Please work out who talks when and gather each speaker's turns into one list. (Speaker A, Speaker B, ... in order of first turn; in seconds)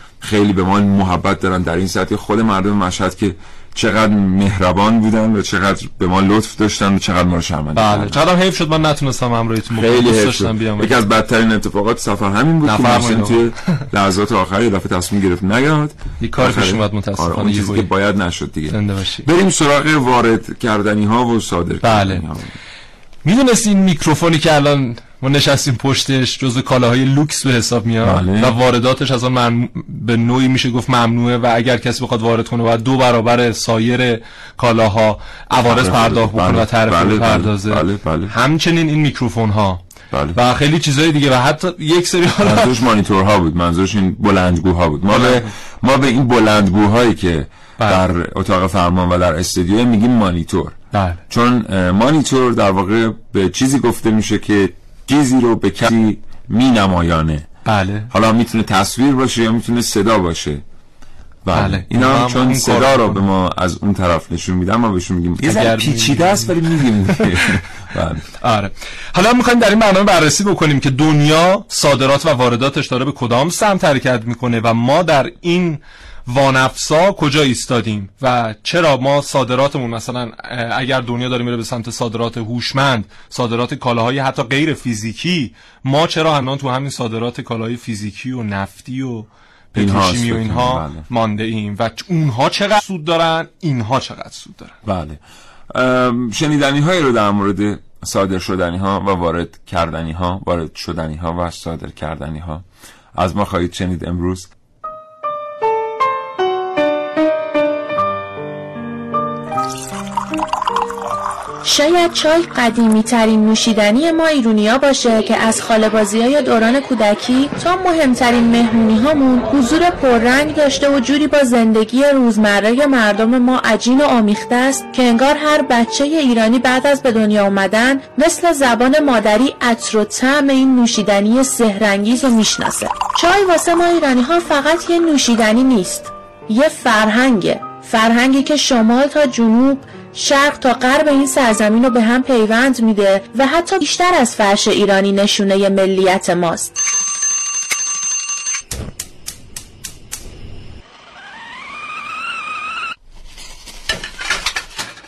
Speaker A: 0.2-8.2, 9.7-22.5, 28.0-28.5, 35.6-38.3, 40.1-40.4, 42.4-57.5, 58.1-60.6, 61.4-68.2, 89.7-91.0, 94.8-95.2, 95.7-102.6, 103.1-104.5
Speaker B: 7.7-10.9, 12.6-13.4, 16.2-17.9, 18.7-19.3, 21.8-22.2, 23.2-39.8, 40.3-42.7, 45.1-45.5, 50.9-51.2, 57.6-58.1, 61.5-63.2, 65.4-67.2, 68.4-94.8
Speaker C: 111.6-146.7